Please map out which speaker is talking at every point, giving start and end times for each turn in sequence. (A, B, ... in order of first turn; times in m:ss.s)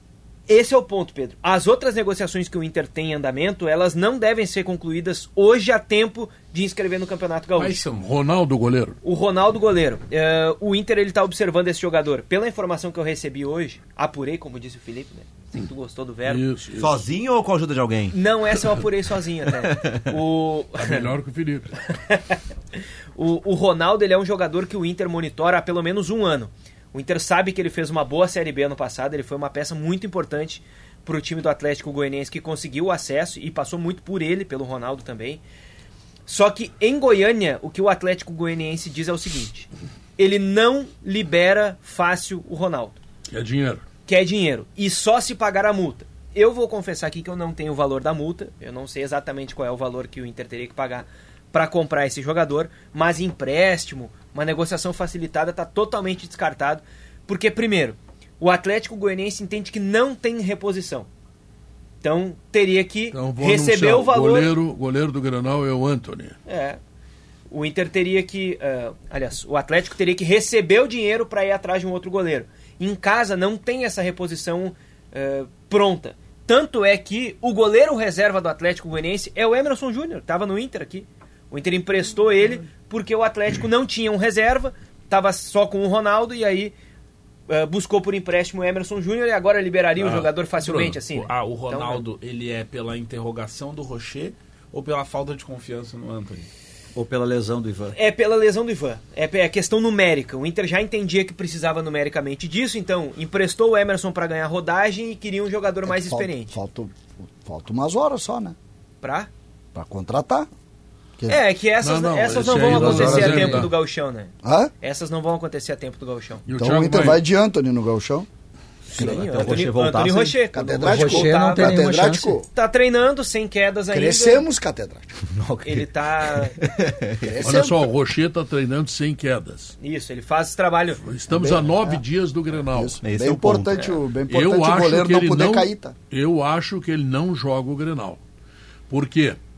0:00.5-0:07.8 A
0:07.6-0:08.0 B
0:08.0-0:09.0 C
0:09.0-0:16.5 A
0:16.3-0:17.0 C
0:16.8-0:18.2 D
0:18.1-0:21.1 A
0:19.6-0:20.2 D
0:20.8-0:21.7 C
0:21.9-0:22.4 A
0:23.2-0:35.4 A
0:36.3-0:43.0 A
0:43.3-0:43.8 C
0:44.1-1:01.1 A
1:02.0-1:04.5 A
1:03.1-1:06.4 C
1:06.5-1:06.8 A
1:07.5-1:26.8 A
1:27.5-1:32.0 A
1:30.0-1:30.3 C
1:30.6-1:36.5 B
1:37.0-1:37.9 E
1:37.9-1:46.5 A
1:45.9-1:48.6 F
1:49.0-1:49.3 A
1:49.8-1:50.5 F
1:51.3-1:56.4 A
1:51.8-1:53.7 C
1:52.5-1:53.7 F
1:54.4-1:54.7 F
1:56.5-1:57.2 C
1:56.6-1:58.3 F
1:58.9-2:01.8 A
1:58.9-2:00.4 D
2:00.5-2:02.5 F
2:00.8-2:02.4 E
2:02.5-2:04.5 A
2:03.9-2:05.2 F
2:05.3-2:07.6 D
2:05.6-2:06.6 A
2:07.2-2:07.9 F
2:07.4-2:09.8 C
2:09.8-2:11.1 A
2:11.0-2:13.0 C
2:11.3-2:12.0 F
2:12.7-2:16.0 F
2:13.0-2:13.8 D
2:14.3-2:18.2 C
2:18.9-2:19.4 C